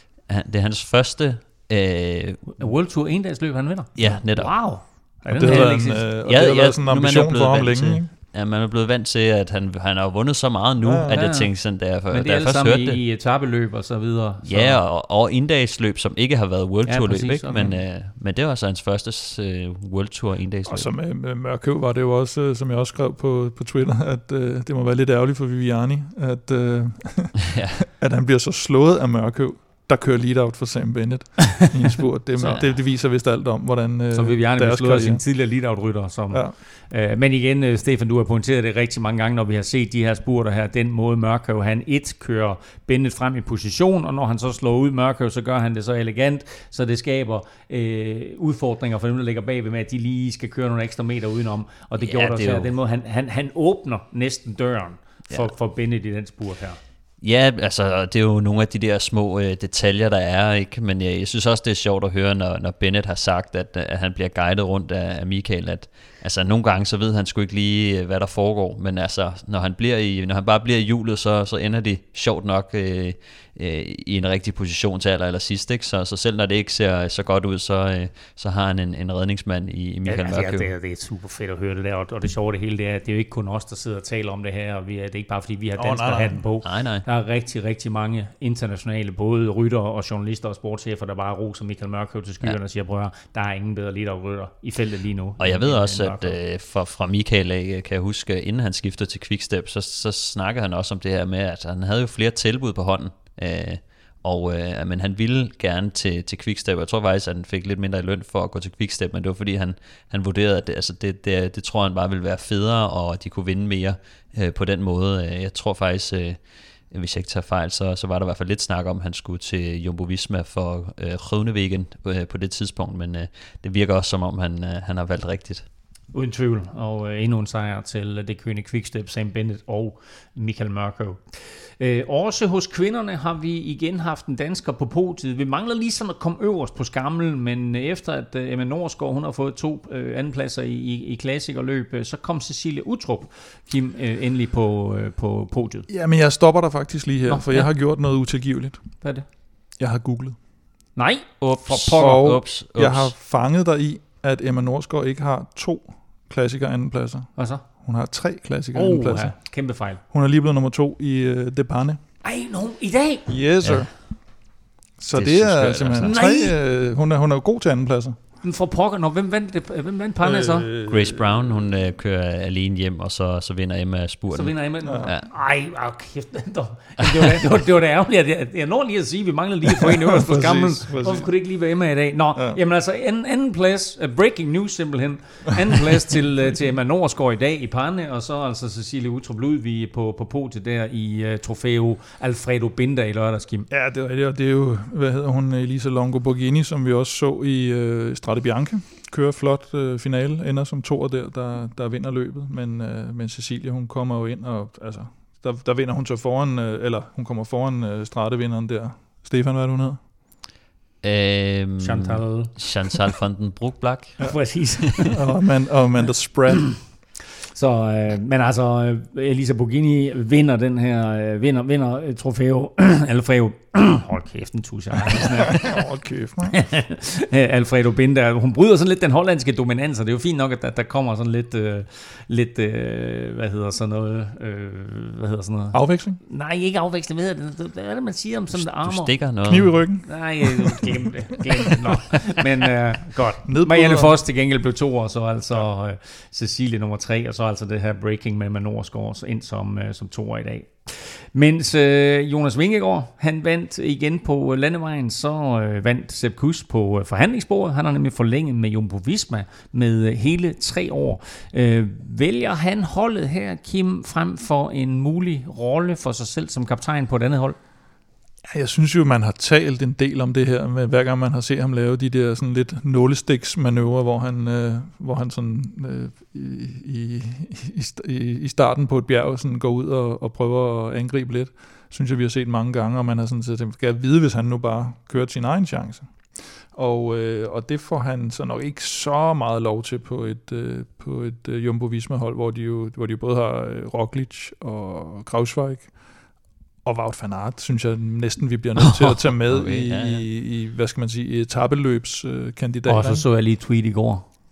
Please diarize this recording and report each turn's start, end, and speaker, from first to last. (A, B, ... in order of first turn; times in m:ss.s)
0:00.2-0:02.7 A
0:02.6-0:06.1 B
0:04.0-0:04.7 A
0:05.3-0:08.1 C
0:05.4-0:13.0 A
0:10.8-0:11.2 C
0:11.1-0:14.8 B
0:14.4-0:20.9 A
0:16.8-0:17.8 B
0:20.6-0:35.3 C
0:27.4-0:27.8 A
0:32.4-0:32.6 B
0:34.1-0:56.8 B
0:36.3-0:36.5 C
0:52.0-0:52.7 A
0:57.2-1:20.7 A
1:20.0-1:36.4 B
1:25.8-1:26.4 C
1:26.6-1:27.0 A
1:35.4-1:56.4 A
1:56.9-2:05.6 A
2:06.1-2:25.9 B
2:25.9-2:29.0 C
2:27.3-2:27.7 B
2:29.0-2:29.3 B
2:29.8-2:30.4 C
2:31.0-2:32.2 B
2:31.5-2:33.1 A
2:31.9-2:39.5 C
2:37.4-2:37.6 B
2:38.7-2:40.0 B
2:40.0-2:42.0 C
2:42.2-2:43.3 B
2:43.3-2:44.2 C
2:43.6-2:43.9 A
2:45.0-2:48.2 C
2:45.1-2:46.1 A
2:46.0-2:46.6 B
2:48.4-2:50.7 B
2:50.2-2:51.6 C
2:50.9-2:55.3 A
2:54.3-3:13.7 B
2:54.8-2:55.1 C
2:57.0-2:57.4 A
2:59.8-3:01.3 C
3:13.7-3:30.0 C
3:31.0-3:34.4 A
3:31.8-3:32.6 B
3:34.2-3:35.2 B
3:35.1-3:36.8 C
3:37.5-3:45.8 B
3:45.4-3:46.6 C
3:46.5-3:59.2 B
3:55.7-3:56.2 C
3:58.5-3:59.9 A
3:59.5-4:01.0 C
4:00.0-4:27.6 B
4:03.4-4:04.2 C
4:28.4-4:55.9 C
4:56.8-5:03.2 C
4:58.8-5:00.2 A
5:02.8-5:04.3 B